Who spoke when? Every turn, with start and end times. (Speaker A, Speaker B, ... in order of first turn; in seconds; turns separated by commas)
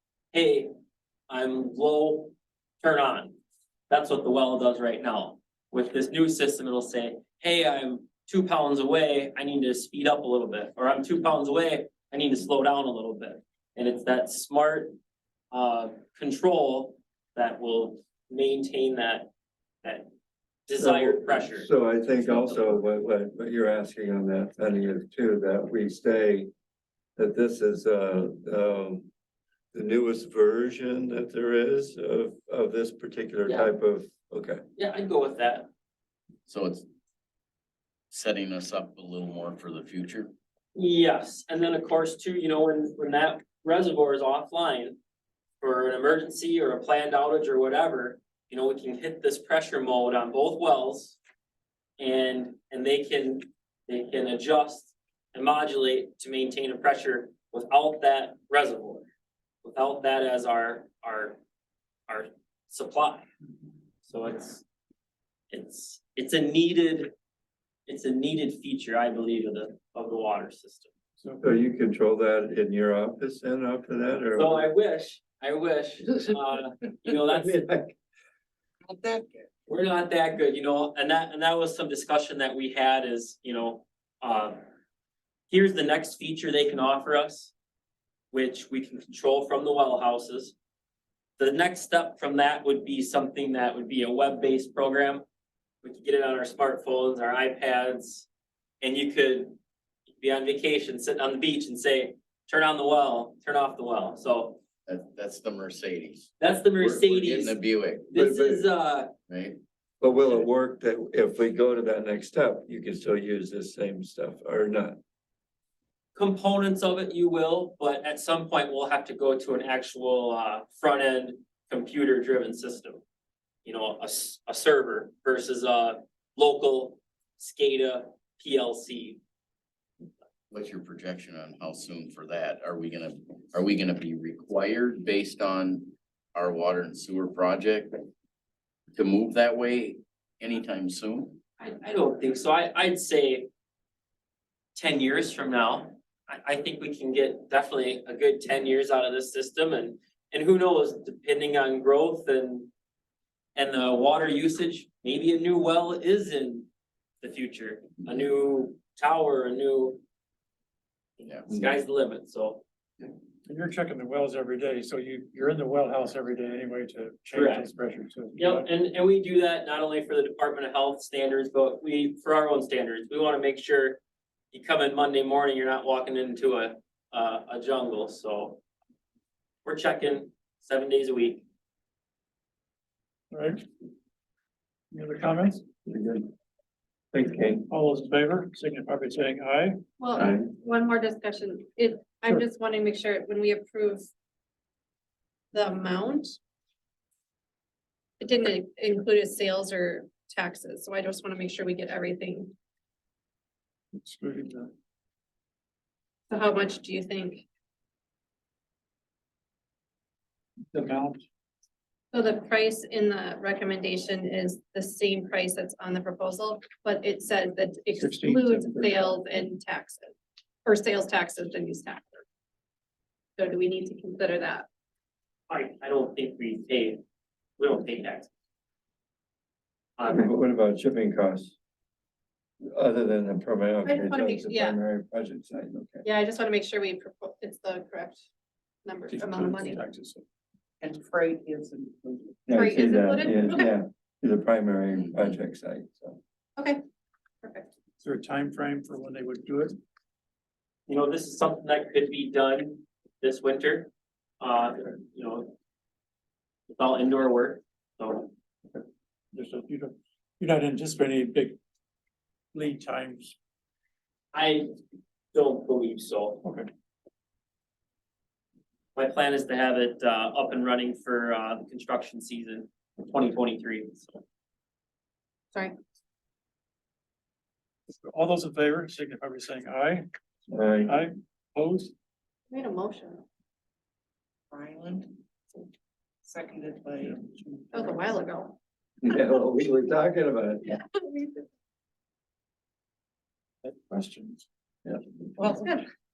Speaker A: 0.3-0.7, Speaker A: 1.3-3.3, Speaker A: 3.9-14.9, Speaker A: 15.5-19.3, Speaker A: 19.8-20.1, Speaker A: 20.7-22.8, Speaker B: 20.8-26.5, Speaker B: 27.2-29.1, Speaker B: 29.7-34.6, Speaker A: 33.5-33.7, Speaker A: 34.8-35.7, Speaker C: 36.5-36.9, Speaker C: 38.1-40.3, Speaker A: 40.7-45.0, Speaker A: 45.6-51.2, Speaker A: 52.0-59.1, Speaker A: 59.6-61.4, Speaker A: 62.1-63.2, Speaker A: 64.0-64.6, Speaker A: 65.5-67.1, Speaker A: 67.9-70.9, Speaker D: 71.2-71.5, Speaker B: 71.4-74.7, Speaker A: 74.3-77.6, Speaker B: 77.1-78.0, Speaker A: 79.7-84.6, Speaker A: 85.5-87.5, Speaker A: 88.3-90.5, Speaker A: 91.4-95.2, Speaker A: 95.8-98.3, Speaker A: 98.8-99.5, Speaker A: 100.2-104.6, Speaker C: 104.9-108.1, Speaker A: 106.4-107.6, Speaker A: 108.1-109.1, Speaker B: 108.1-108.7, Speaker C: 109.3-109.6, Speaker B: 110.0-115.0, Speaker A: 116.1-123.0, Speaker A: 123.6-129.2, Speaker C: 130.5-138.0, Speaker C: 138.9-141.4, Speaker A: 141.6-143.5, Speaker A: 144.7-152.7, Speaker A: 153.6-156.7, Speaker A: 157.2-160.0, Speaker C: 161.2-161.7, Speaker A: 161.4-162.6, Speaker D: 163.5-168.7, Speaker A: 167.3-167.7, Speaker A: 168.3-174.0, Speaker A: 174.5-178.6, Speaker A: 179.6-181.4, Speaker D: 183.3-183.6, Speaker D: 184.9-185.6, Speaker B: 185.8-186.3, Speaker B: 187.1-187.7, Speaker D: 187.7-189.8, Speaker E: 190.0-194.1, Speaker B: 190.1-190.5, Speaker E: 195.5-196.4, Speaker E: 198.2-202.5, Speaker D: 204.0-204.7, Speaker E: 206.3-207.4, Speaker D: 210.7-211.2, Speaker E: 212.1-220.1, Speaker D: 218.0-219.2, Speaker E: 220.6-222.2, Speaker E: 223.4-224.7, Speaker A: 225.5-227.0, Speaker A: 227.6-228.3, Speaker A: 230.0-230.3, Speaker B: 230.1-231.6, Speaker B: 232.7-236.1, Speaker E: 233.8-234.8, Speaker E: 236.0-238.3, Speaker E: 238.8-239.8, Speaker D: 239.1-240.2, Speaker F: 240.8-242.2, Speaker B: 242.4-246.2, Speaker E: 242.5-243.7, Speaker C: 244.9-245.4, Speaker E: 247.4-247.7, Speaker D: 248.0-249.8, Speaker A: 250.9-255.5, Speaker A: 256.7-258.3, Speaker D: 258.7-261.6, Speaker D: 262.5-263.4, Speaker A: 264.3-264.7, Speaker A: 265.3-266.4, Speaker A: 268.9-274.2, Speaker D: 277.9-280.1, Speaker B: 280.5-281.0, Speaker D: 280.8-281.9, Speaker E: 282.5-283.2, Speaker F: 284.5-285.0, Speaker F: 286.3-287.1, Speaker D: 287.0-287.4, Speaker E: 287.7-288.6, Speaker B: 289.0-290.8, Speaker E: 290.7-291.4, Speaker D: 293.6-294.5